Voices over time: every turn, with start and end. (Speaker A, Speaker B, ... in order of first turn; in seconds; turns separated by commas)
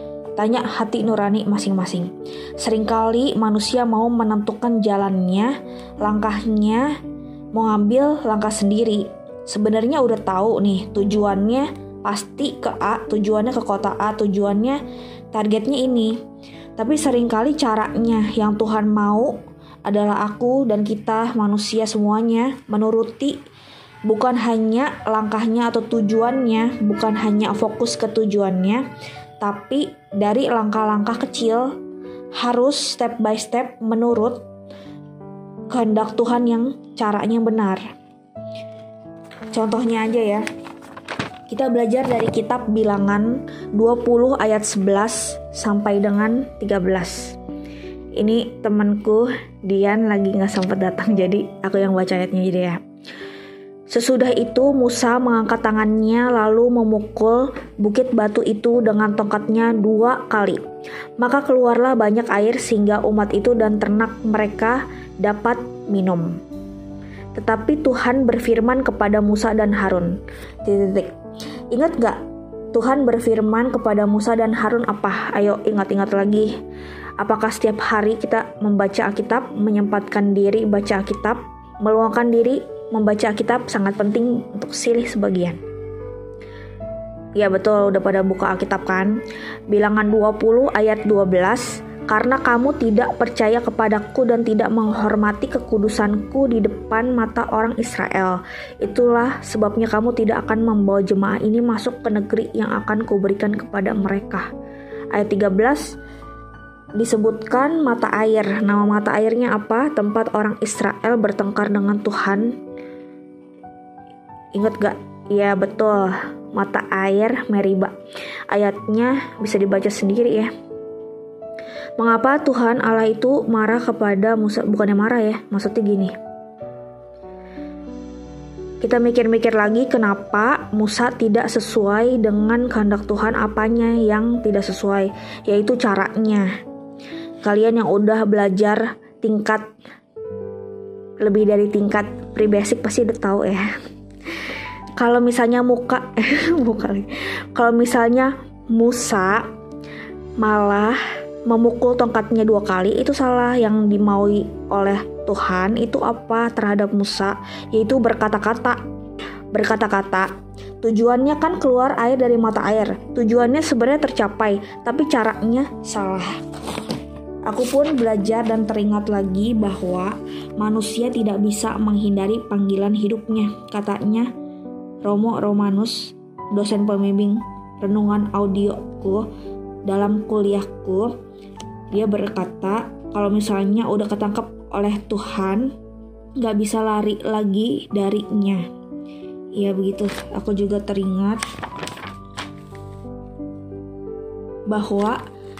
Speaker A: 0.3-6.9, Speaker A: 7.5-14.8, Speaker A: 15.3-16.1, Speaker A: 16.8-23.4, Speaker A: 24.1-28.8, Speaker A: 29.4-31.8, Speaker A: 32.4-34.4, Speaker A: 35.7-37.8, Speaker A: 39.5-40.4, Speaker A: 41.5-47.4, Speaker A: 48.2-52.8, Speaker A: 53.9-60.6, Speaker A: 61.2-66.4, Speaker A: 67.3-71.1, Speaker A: 71.7-72.2, Speaker A: 72.7-76.5, Speaker A: 77.2-85.6, Speaker A: 87.4-89.2, Speaker A: 89.7-104.5, Speaker A: 105.1-106.0, Speaker A: 107.0-112.6, Speaker A: 114.5-117.9, Speaker A: 118.5-120.5, Speaker A: 122.0-126.1, Speaker A: 128.8-136.5, Speaker A: 137.4-139.7, Speaker A: 141.2-143.7, Speaker A: 145.0-149.4, Speaker A: 150.4-158.8, Speaker A: 159.5-160.3, Speaker A: 160.8-166.3, Speaker A: 167.5-174.3, Speaker A: 175.0-179.3, Speaker A: 179.8-181.2, Speaker A: 181.9-185.7, Speaker A: 186.4-188.7, Speaker A: 189.6-191.4, Speaker A: 194.7-195.2